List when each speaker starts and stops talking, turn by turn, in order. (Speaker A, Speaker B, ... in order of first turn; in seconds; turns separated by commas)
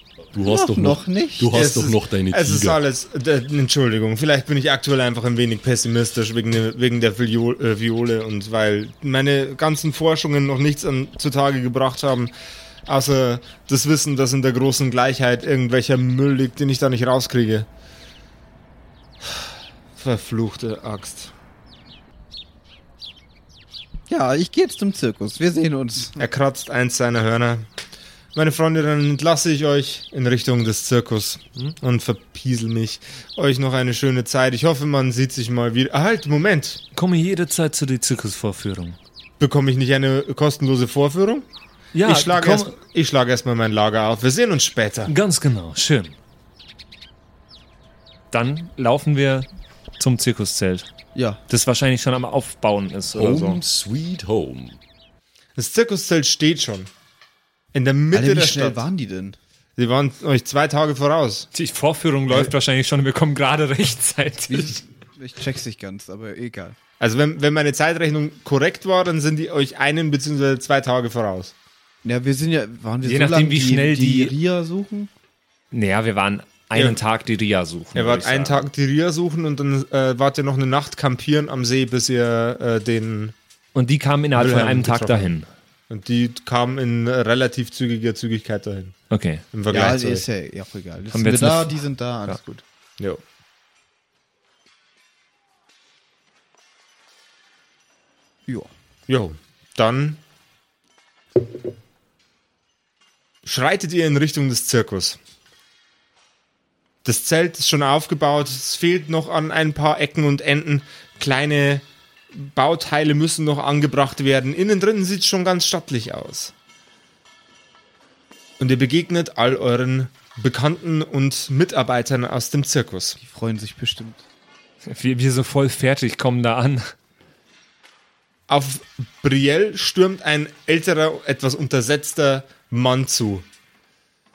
Speaker A: 0.3-2.8, Speaker B: 0.4-1.5, Speaker C: 1.5-12.3, Speaker C: 12.9-17.7, Speaker C: 19.2-21.3, Speaker B: 24.1-26.2, Speaker C: 26.2-27.7, Speaker C: 28.4-36.8, Speaker D: 37.0-39.0, Speaker C: 39.4-41.5, Speaker D: 41.9-42.8, Speaker C: 42.0-45.1, Speaker D: 45.1-46.1, Speaker D: 48.3-49.5, Speaker D: 50.0-50.9, Speaker B: 51.1-51.4, Speaker D: 51.5-53.6, Speaker A: 53.1-54.8, Speaker C: 55.6-56.9, Speaker C: 57.7-58.9, Speaker B: 58.1-59.4, Speaker C: 59.8-61.5, Speaker D: 61.5-64.8, Speaker B: 64.5-66.8, Speaker C: 67.0-71.5, Speaker B: 72.0-75.1, Speaker D: 73.0-74.3, Speaker D: 75.7-78.7, Speaker C: 76.8-77.0, Speaker C: 78.0-83.3, Speaker D: 83.8-85.5, Speaker C: 84.3-85.3, Speaker C: 85.9-89.0, Speaker D: 89.1-89.4, Speaker C: 89.5-90.2, Speaker B: 89.7-92.6, Speaker D: 91.1-92.4, Speaker C: 99.1-100.2, Speaker C: 103.4-105.2, Speaker C: 107.0-116.5, Speaker C: 118.6-123.2, Speaker B: 123.2-124.2, Speaker D: 124.9-126.9, Speaker C: 128.5-133.5